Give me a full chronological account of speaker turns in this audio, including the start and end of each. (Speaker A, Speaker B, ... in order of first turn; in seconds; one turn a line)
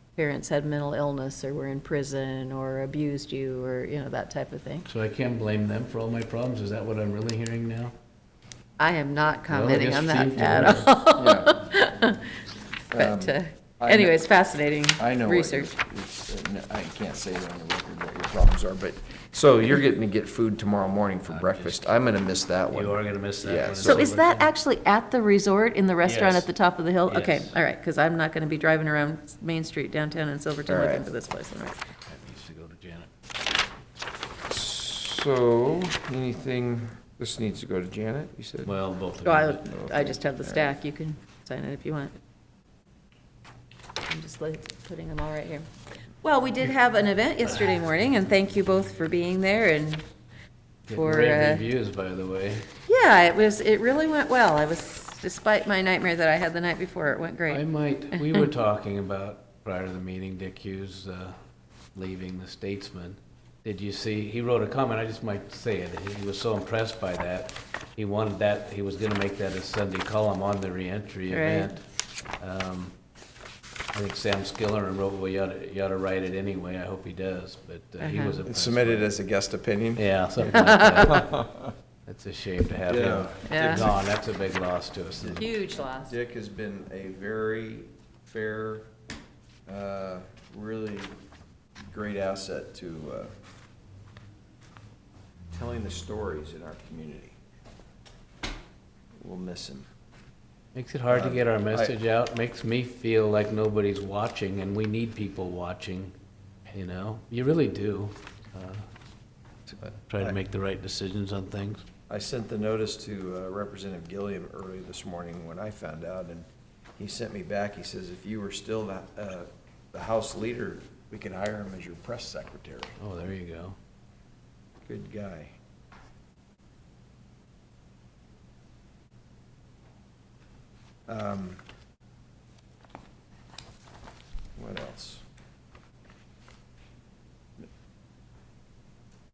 Speaker A: 0.2-4.9
Speaker B: 4.9-7.9
Speaker A: 8.8-12.4
Speaker B: 9.5-10.9
Speaker C: 11.2-11.7
Speaker C: 12.9-14.2
Speaker A: 12.9-15.7
Speaker C: 15.0-24.0
Speaker B: 21.3-21.8
Speaker B: 22.7-24.5
Speaker A: 23.8-31.8
Speaker B: 26.0-26.5
Speaker B: 27.1-27.5
Speaker C: 30.7-31.1
Speaker B: 32.0-33.1
Speaker C: 34.5-38.7
Speaker B: 38.6-39.6
Speaker A: 39.2-42.1
Speaker C: 39.6-40.7
Speaker A: 44.0-45.7
Speaker A: 46.2-50.0
Speaker B: 50.9-52.7
Speaker A: 50.9-51.6
Speaker A: 52.9-57.6
Speaker B: 57.5-61.3
Speaker A: 58.1-58.4
Speaker B: 61.9-71.8
Speaker A: 71.3-71.7
Speaker B: 72.4-72.9
Speaker B: 73.9-79.1
Speaker A: 78.0-78.4
Speaker C: 78.4-81.7
Speaker B: 80.0-81.5
Speaker A: 80.5-81.3
Speaker B: 82.1-85.5
Speaker C: 82.9-83.9
Speaker A: 83.4-83.9
Speaker C: 85.2-88.9
Speaker A: 85.3-86.1
Speaker C: 89.7-91.2
Speaker C: 91.9-93.3
Speaker C: 95.5-97.4
Speaker C: 99.2-99.9
Speaker B: 100.7-106.1
Speaker C: 101.1-101.9
Speaker B: 106.7-108.8
Speaker C: 109.7-110.4
Speaker B: 110.1-111.8
Speaker C: 112.1-116.4
Speaker C: 117.0-123.0
Speaker B: 123.0-123.8
Speaker C: 124.8-125.5
Speaker C: 131.1-131.6
Speaker C: 134.6-135.2